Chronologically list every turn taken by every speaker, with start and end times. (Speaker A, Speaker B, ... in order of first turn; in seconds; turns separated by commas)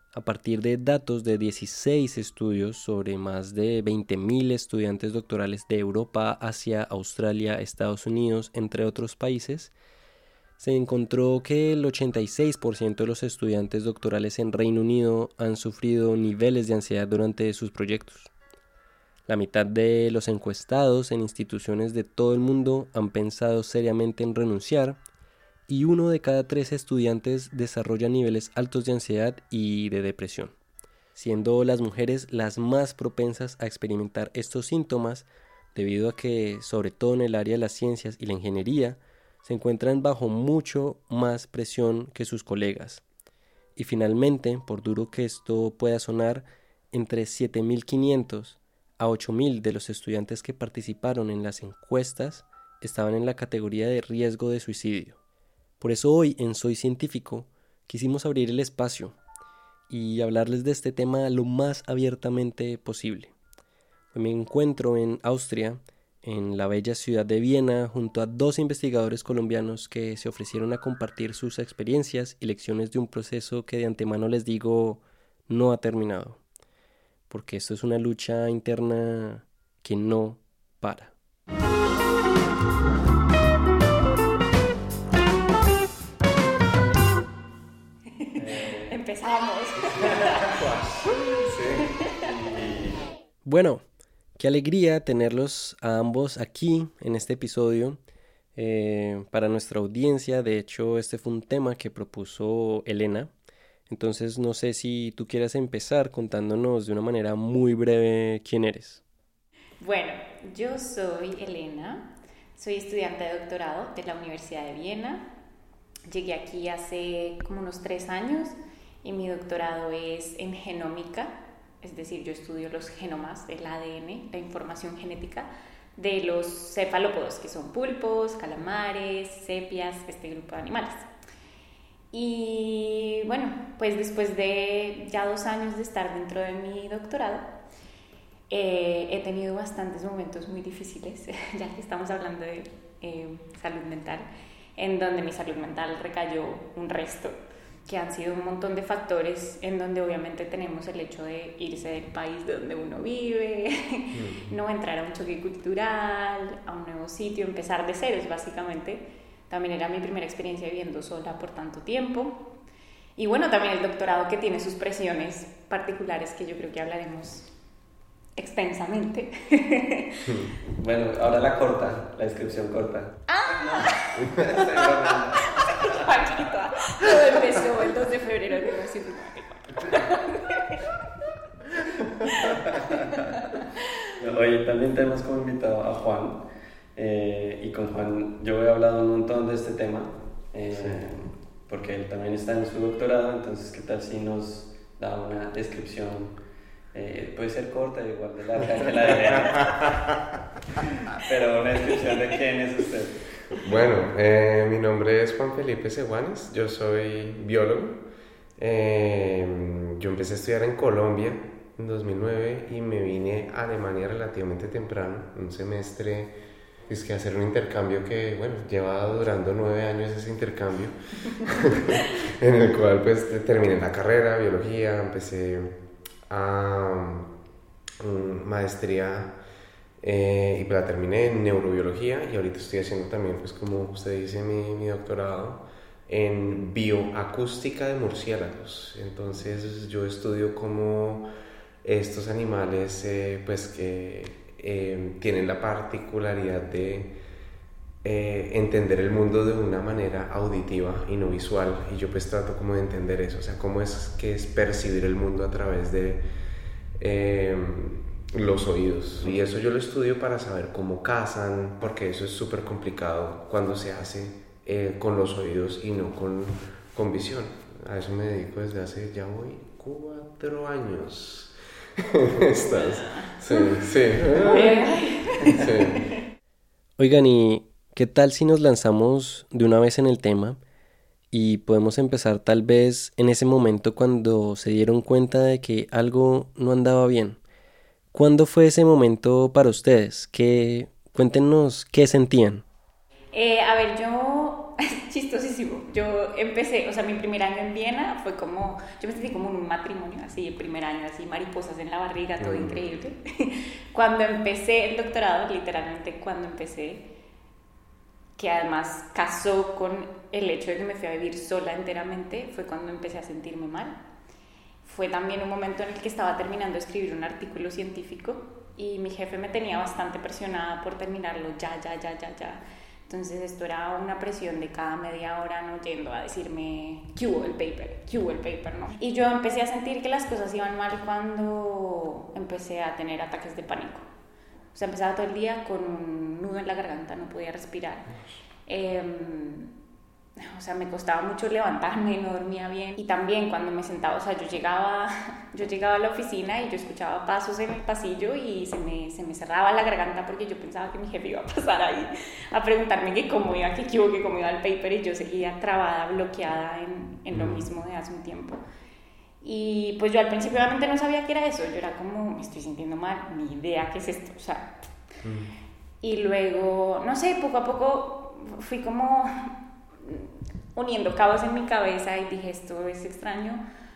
Speaker A: 0.1-9.7, Speaker A: 10.6-18.3, Speaker A: 19.3-25.0, Speaker A: 25.7-30.6, Speaker A: 31.2-43.0, Speaker A: 43.8-55.2, Speaker A: 55.8-59.2, Speaker A: 59.9-63.3, Speaker A: 64.1-76.4, Speaker A: 77.3-81.1, Speaker B: 88.2-90.6, Speaker A: 88.4-88.9, Speaker A: 90.0-90.8, Speaker C: 91.5-91.8, Speaker A: 92.2-93.8, Speaker A: 94.4-98.0, Speaker A: 98.6-103.3, Speaker A: 103.9-109.0, Speaker B: 109.8-115.2, Speaker B: 116.1-131.1, Speaker B: 132.1-137.4, Speaker B: 138.5-162.5, Speaker C: 154.1-154.5, Speaker B: 163.2-167.5, Speaker B: 168.4-170.4, Speaker C: 170.3-170.5, Speaker A: 170.7-176.0, Speaker B: 173.3-174.3, Speaker C: 174.3-174.6, Speaker B: 175.4-180.8, Speaker B: 182.4-183.6, Speaker A: 182.4-183.2, Speaker A: 184.2-186.4, Speaker A: 186.9-196.3, Speaker C: 190.8-191.0, Speaker A: 196.9-200.0, Speaker A: 201.1-203.2, Speaker C: 203.6-208.0, Speaker C: 208.6-216.3, Speaker C: 216.9-225.8, Speaker C: 226.3-227.3, Speaker C: 228.0-229.3, Speaker C: 230.0-241.3, Speaker C: 241.8-247.1, Speaker C: 248.0-256.2, Speaker C: 257.0-274.9, Speaker B: 272.6-273.7, Speaker B: 274.3-276.1, Speaker C: 275.5-276.1, Speaker A: 277.0-280.6, Speaker A: 281.3-287.4, Speaker A: 288.1-292.6, Speaker B: 293.3-307.1, Speaker C: 302.4-302.8, Speaker B: 308.4-314.0, Speaker B: 314.8-334.1, Speaker B: 334.7-338.1, Speaker B: 338.7-339.7, Speaker B: 340.4-358.6, Speaker C: 357.3-357.6, Speaker B: 359.4-364.7, Speaker C: 365.2-365.5, Speaker B: 366.0-369.5, Speaker B: 370.0-373.6